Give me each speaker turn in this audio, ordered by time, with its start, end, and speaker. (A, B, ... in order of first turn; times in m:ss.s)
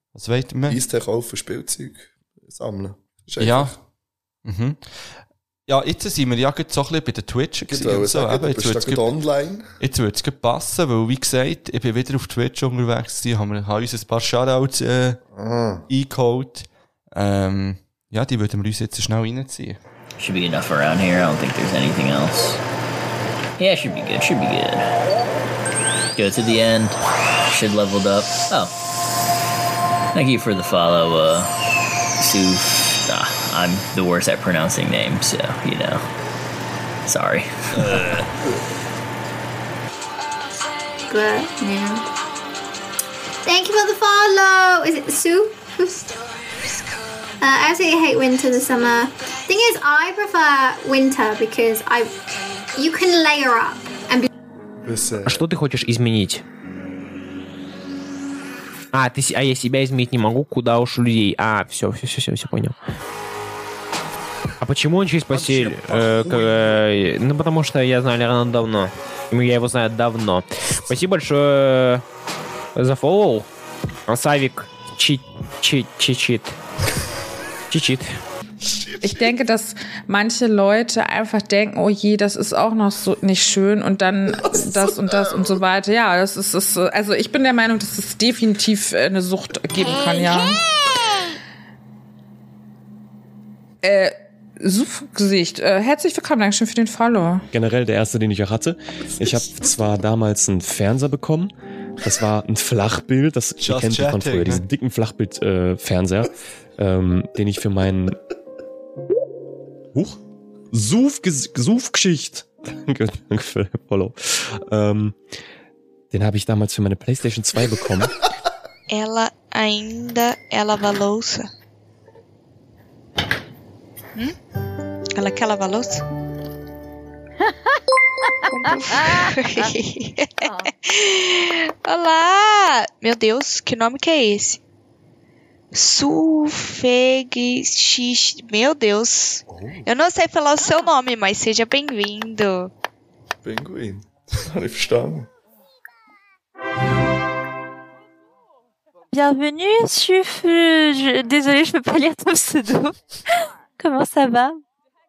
0:00.2-0:00.8 A
0:00.7-0:03.8 B
0:03.4-0:03.7 A
0:04.4-0:05.1 A
0:05.7-0:09.1 A
0:07.7-0:09.7 B
0:09.8-0:15.2 A
0:15.3-0:15.9 B
0:15.9-0:19.8 A
0:20.2-0:22.6 C
0:23.6-0:24.9 C
0:26.2-0:27.0 C
0:27.5-0:28.7 C
0:30.1-0:31.5 C
0:32.2-0:36.0 C
0:37.1-0:38.3 C
0:41.1-0:42.0 D
0:43.4-0:46.1 D
0:47.4-0:52.2 D
0:52.7-0:54.3 D
0:54.8-0:55.4 B
0:55.3-0:56.4 E
0:58.9-1:02.8 E
1:04.6-1:12.0 E
1:12.8-1:13.5 E
1:14.1-1:16.6 E
1:17.7-1:18.2 E
1:18.6-1:19.3 B
1:19.0-1:30.6 F
1:24.4-1:25.6 B
1:33.8-1:37.5 F
1:37.5-1:48.2 G
1:43.6-1:44.6 A
1:50.7-1:55.2 G
1:56.1-1:58.1 G
1:58.9-2:01.5 H
2:05.2-2:06.0 H
2:08.5-2:14.6 H
2:15.7-2:22.7 H
2:19.5-2:19.9 B
2:23.4-2:25.3 B
2:29.1-2:33.0 I
2:33.8-2:34.6 I